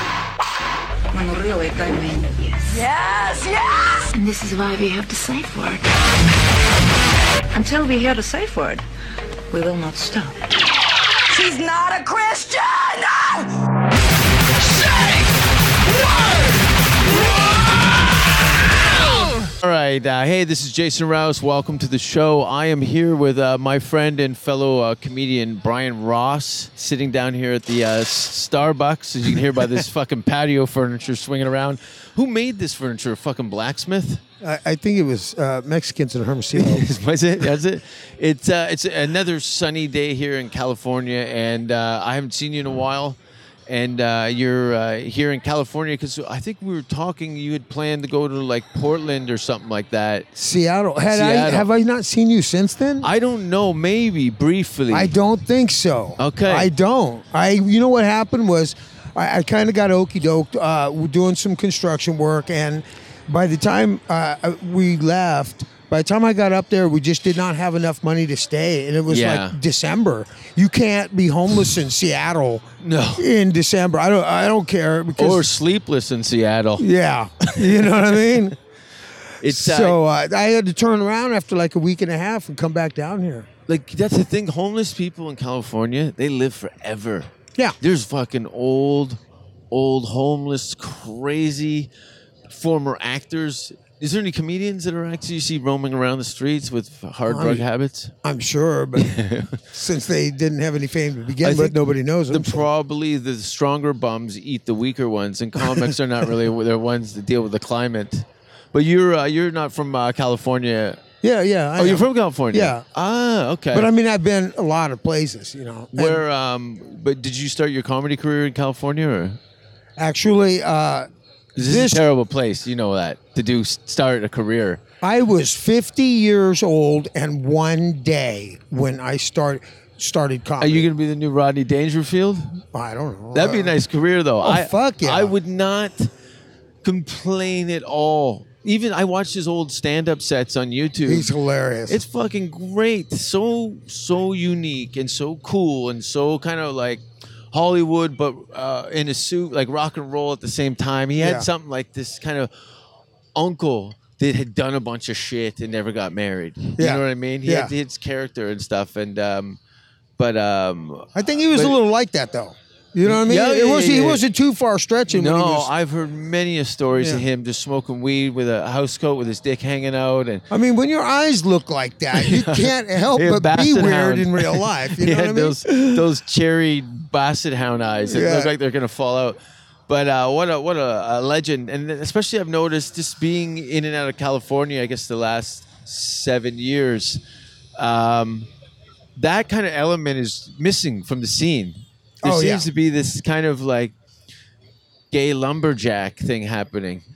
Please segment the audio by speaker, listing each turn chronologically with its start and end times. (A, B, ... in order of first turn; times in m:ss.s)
0:01.1-0:06.0 A
0:07.5-0:08.8 A
0:09.5-0:10.4 A
0:11.3-0:13.5 A
0:14.6-0:15.3 A
0:15.9-0:16.5 A
0:17.3-0:18.0 A
0:19.6-0:34.2 B
0:34.4-0:36.9 C
0:36.6-0:50.3 B
0:50.4-0:53.1 C
0:51.1-0:51.7 B
0:53.0-0:55.1 B
0:54.9-1:12.7 C
0:56.2-0:56.7 B
1:09.1-1:09.6 B
1:12.8-1:13.3 B
1:13.2-1:15.5 C
1:15.2-1:16.9 B
1:16.8-1:18.6 C
1:17.5-1:18.4 B
1:19.4-1:20.0 B
1:19.4-1:23.5 C
1:23.7-1:31.9 B
1:32.5-1:38.1 B
1:37.3-1:37.7 C
1:38.2-1:39.1 C
1:39.0-1:39.6 B
1:39.7-1:42.6 C
1:41.4-1:51.0 B
1:45.6-1:45.9 C
1:51.2-1:52.8 C
1:51.8-1:53.9 B
1:53.7-1:56.2 C
1:55.9-1:59.4 B
2:00.0-2:02.0 C
2:01.6-2:04.8 B
2:05.0-2:10.9 C
2:10.6-2:12.6 B
2:12.7-2:13.7 C
2:13.3-2:16.1 B
2:14.4-2:15.3 C
2:16.8-2:21.3 B
2:21.0-2:22.0 C
2:21.9-2:32.5 B
2:31.2-2:31.5 C
2:33.4-2:39.6 B
2:36.8-2:37.7 C
2:40.2-2:41.8 B
2:41.2-2:45.7 C
2:43.0-2:44.2 B
2:45.1-2:50.4 B
2:47.0-2:47.3 C
2:50.5-2:56.0 C
2:52.2-3:07.2 B
2:58.1-2:58.5 C
3:07.8-3:08.5 B
3:09.2-3:14.0 B
3:12.2-3:12.7 C
3:15.1-3:17.0 B